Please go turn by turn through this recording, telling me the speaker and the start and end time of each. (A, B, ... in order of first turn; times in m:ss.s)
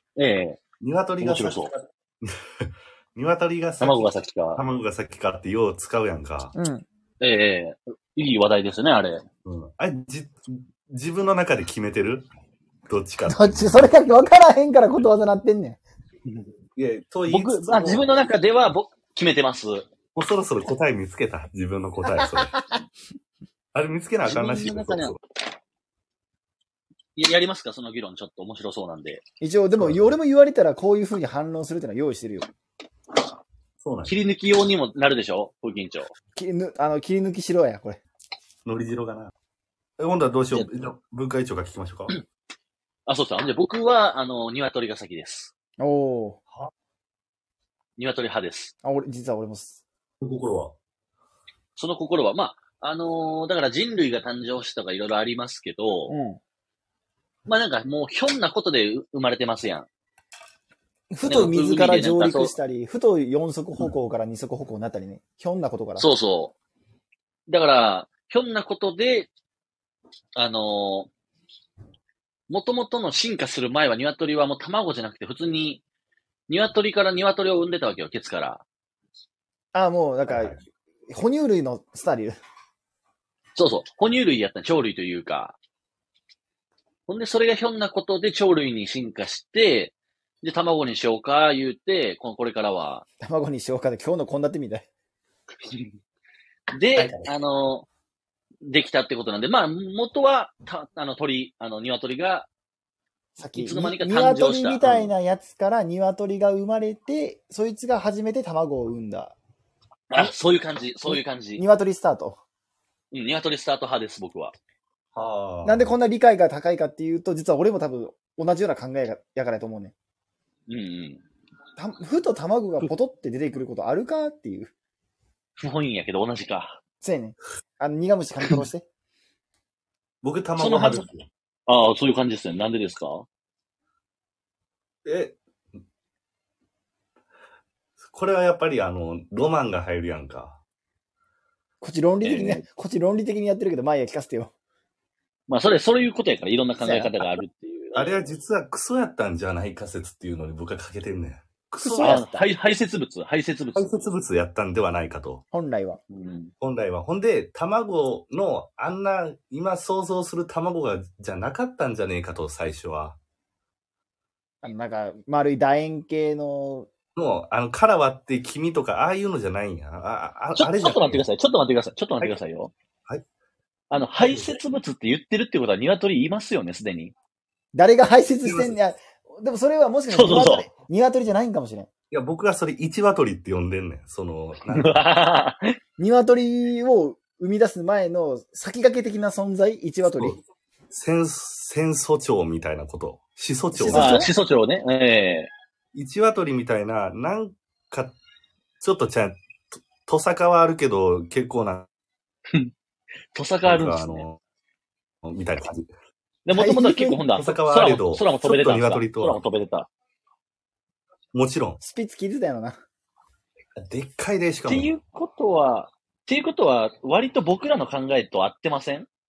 0:00.2-0:00.6 A
0:00.8-0:06.5 B
0:01.2-0:01.7 A
0:03.8-0:04.6 A
0:06.5-0:06.8 C
0:07.2-0:09.2 A
0:09.4-0:12.2 B
0:12.9-0:13.9 B
0:13.2-0:15.8 C
0:16.8-0:18.2 B
0:17.3-0:19.8 A
0:20.1-0:22.5 B
0:22.1-0:22.6 C
0:23.7-0:25.2 B
0:24.2-0:25.1 A
0:27.2-0:29.2 A
0:29.4-0:32.5 C
0:29.8-0:30.1 B
0:33.8-0:34.1 B
0:34.0-0:36.1 A
0:36.3-0:38.0 C
0:38.6-0:39.3 B
0:40.0-0:42.1 B
0:43.1-0:45.5 A
0:45.8-0:46.4 C
0:48.0-0:48.7 A
0:48.8-0:49.8 C
0:50.2-0:50.7 B
0:51.8-0:56.1 A
0:56.1-0:56.4 C
0:57.5-0:59.9 A
1:01.1-1:06.1 C
1:01.2-1:02.5 A
1:06.0-1:06.5 A
1:07.5-1:09.3 A
1:10.4-1:11.1 A
1:12.5-1:15.8 A
1:16.5-1:18.6 A
1:19.7-1:20.6 C
1:20.2-1:20.6 B
1:21.1-1:22.4 C
1:23.6-1:25.6 A
1:27.1-1:33.0 A
1:33.2-1:34.9 C
1:35.6-1:35.9 A
1:36.7-1:37.8 A
1:36.9-1:37.3 B
1:38.6-1:42.5 A
1:43.4-1:49.4 C
1:43.6-1:45.1 A
1:50.1-1:51.6 A
1:51.0-1:52.4 C
1:53.1-1:54.5 A
1:55.1-1:55.9 B
1:55.6-1:59.9 C
2:00.7-2:01.2 A
2:01.8-2:04.7 C
2:05.6-2:06.8 A
2:07.0-2:08.8 C
2:10.2-2:11.3 B
2:10.6-2:11.1 A
2:11.7-2:13.2 A
2:15.0-2:15.4 B
2:18.0-2:20.6 B
2:21.8-2:24.5 C
2:22.2-2:22.6 A
2:25.5-2:28.2 A
2:26.8-2:27.3 C
2:27.9-2:32.2 B
2:31.8-2:32.5 C
2:32.0-2:33.9 A
2:33.7-2:35.4 B
2:35.5-2:36.0 C
2:36.1-2:36.5 A
2:36.6-2:43.2 B
2:44.6-2:46.9 C
2:47.1-2:51.2 B
2:50.6-2:52.7 A
2:53.9-2:57.1 A
2:54.2-2:54.6 B
2:57.7-3:01.9 C
2:58.4-2:58.8 B
3:00.1-3:00.7 A
3:02.1-3:05.0 B
3:04.7-3:05.7 A
3:06.0-3:10.4 C
3:10.1-3:10.4 B
3:10.9-3:14.3 B
3:13.7-3:14.3 C
3:13.9-3:15.5 A
3:15.9-3:18.2 B
3:18.8-3:21.9 B
3:23.3-3:24.2 A
3:23.6-3:24.4 B
3:25.2-3:25.9 B
3:26.4-3:29.9 A
3:26.5-3:27.2 C
3:27.4-3:29.4 B
3:31.3-3:31.8 B
3:31.8-3:32.8 C
3:33.8-3:35.0 B
3:34.6-3:39.1 A